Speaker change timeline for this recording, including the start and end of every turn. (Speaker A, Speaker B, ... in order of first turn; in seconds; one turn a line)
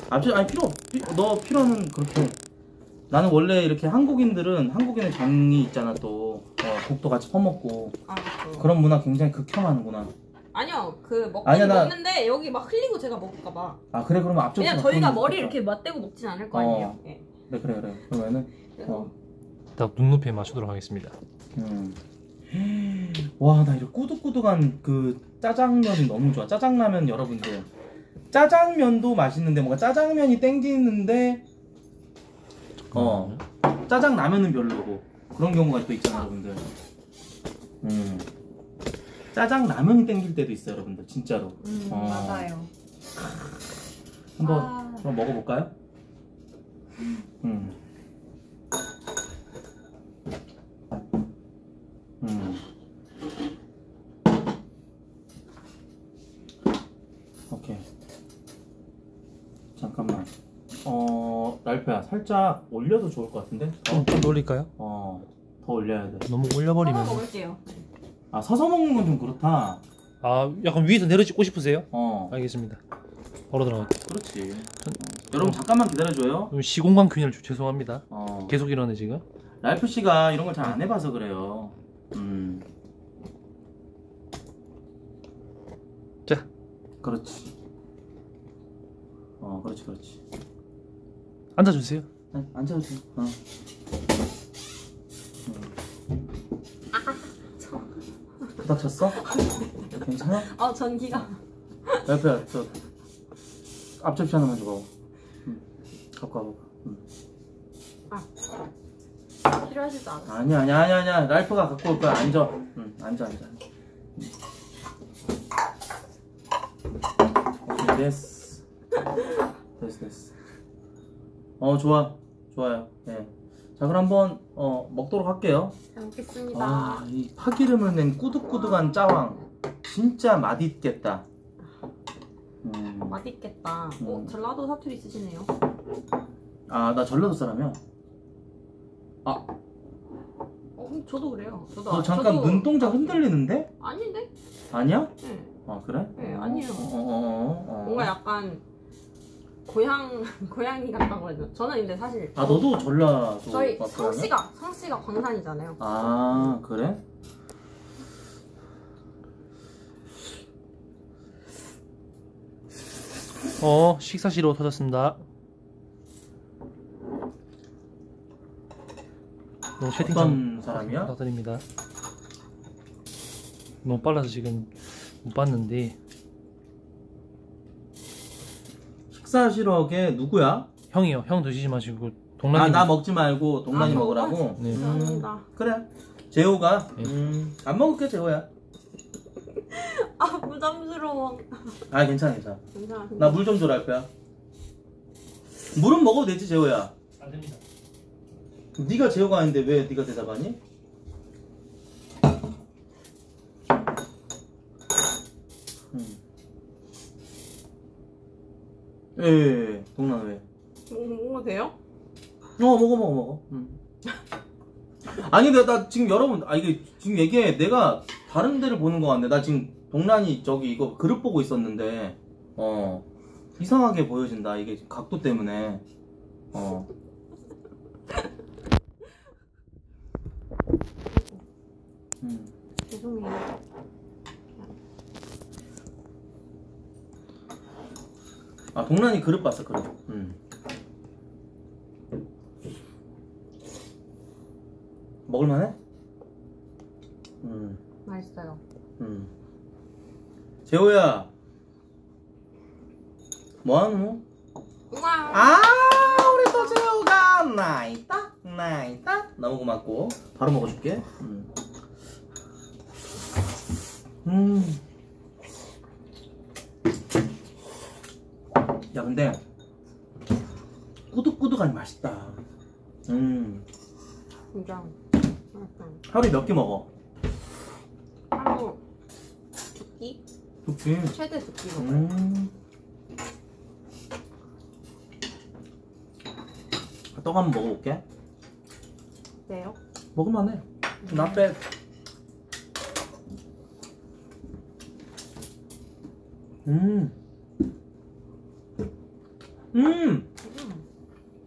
Speaker A: 0.1-2.4
Speaker A: 3.1-8.0
Speaker B: 8.1-8.7
Speaker A: 8.6-10.1
Speaker B: 10.5-13.8
Speaker A: 11.4-11.9
Speaker A: 13.9-15.6
Speaker B: 14.6-17.3
Speaker A: 16.5-17.0
Speaker A: 17.5-19.1
Speaker B: 18.8-19.1
Speaker C: 19.8-21.1
Speaker A: 21.6-27.7
Speaker A: 28.3-31.4
Speaker A: 32.9-36.6
Speaker C: 32.9-33.4
Speaker A: 37.8-38.3
Speaker A: 39.3-42.5
Speaker B: 41.6-42.7
Speaker A: 44.4-45.7
Speaker B: 44.4-45.1
Speaker A: 47.4-47.8
Speaker A: 52.2-52.6
Speaker A: 57.5-57.8
Speaker A: 59.8-60.3
Speaker A: 60.8-64.1
Speaker C: 63.9-64.7
Speaker A: 64.8-66.3
Speaker C: 66.3-67.2
Speaker B: 66.8-67.8
Speaker A: 68.3-69.8
Speaker C: 70.2-72.8
Speaker A: 71.9-72.3
Speaker C: 73.5-74.0
Speaker A: 74.0-76.5
Speaker C: 74.8-75.6
Speaker C: 76.5-79.2
Speaker A: 78.1-78.5
Speaker A: 79.6-82.7
Speaker A: 87.0-87.5
Speaker A: 89.4-90.2
Speaker C: 91.6-92.1
Speaker A: 92.3-93.4
Speaker A: 95.5-95.7
Speaker B: 96.9-97.9
Speaker B: 98.5-102.0
Speaker A: 98.6-99.2
Speaker A: 99.9-100.5
Speaker A: 102.1-102.7
Speaker A: 104.0-104.9
Speaker A: 106.2-107.0
Speaker B: 109.6-110.4
Speaker A: 110.3-113.6
Speaker A: 117.7-118.6
Speaker A: 119.8-120.3
Speaker A: 121.6-125.8
Speaker B: 125.9-127.1
Speaker A: 126.5-131.2
Speaker A: 132.6-133.2
Speaker B: 133.1-135.5
Speaker A: 134.0-134.3
Speaker A: 136.7-137.8
Speaker B: 140.8-143.3
Speaker A: 141.9-143.7
Speaker B: 143.8-144.3
Speaker A: 144.7-145.1
Speaker B: 145.2-145.5
Speaker A: 145.7-148.1
Speaker B: 146.2-146.9
Speaker B: 147.8-148.6
Speaker B: 149.7-152.8
Speaker A: 152.4-154.3
Speaker B: 153.5-155.8
Speaker A: 155.8-157.0
Speaker C: 163.6-165.2
Speaker C: 169.8-171.6
Speaker A: 170.0-171.1
Speaker C: 173.8-175.9
Speaker A: 179.1-180.7
Speaker C: 180.9-183.0
Speaker A: 182.5-188.5
Speaker B: 183.7-185.4
Speaker C: 183.8-184.8
Speaker B: 189.7-191.5
Speaker A: 191.9-192.6
Speaker B: 192.7-193.5
Speaker A: 193.2-194.1
Speaker A: 195.7-196.9
Speaker C: 197.2-197.6
Speaker A: 198.8-200.6
Speaker A: 205.9-206.2
Speaker A: 209.2-210.4
Speaker B: 210.9-211.8
Speaker A: 212.6-213.8
Speaker A: 215.1-223.1
Speaker A: 223.6-225.8
Speaker A: 226.5-226.9
Speaker B: 231.1-231.4
Speaker A: 232.2-232.5
Speaker B: 232.9-233.6
Speaker A: 238.7-240.4
Speaker A: 245.3-245.8
Speaker A: 247.4-247.8
Speaker B: 248.1-248.6
Speaker A: 249.0-249.3
Speaker A: 250.7-251.3
Speaker A: 253.6-254.2
Speaker B: 254.9-256.8
Speaker A: 255.3-261.5
Speaker A: 264.2-264.8
Speaker A: 268.9-269.4
Speaker A: 271.1-272.4
Speaker A: 273.1-273.7
Speaker B: 274.5-274.9
Speaker B: 275.5-276.0
Speaker A: 276.1-276.9
Speaker B: 278.3-278.8
Speaker B: 279.8-280.2
Speaker A: 280.6-281.1
Speaker B: 281.1-282.1
Speaker A: 281.8-282.5
Speaker A: 287.1-288.0
Speaker B: 289.5-289.8
Speaker A: 290.1-291.6
Speaker B: 291.0-291.5
Speaker A: 296.6-297.1
Speaker A: 299.7-300.3
Speaker B: 300.4-300.8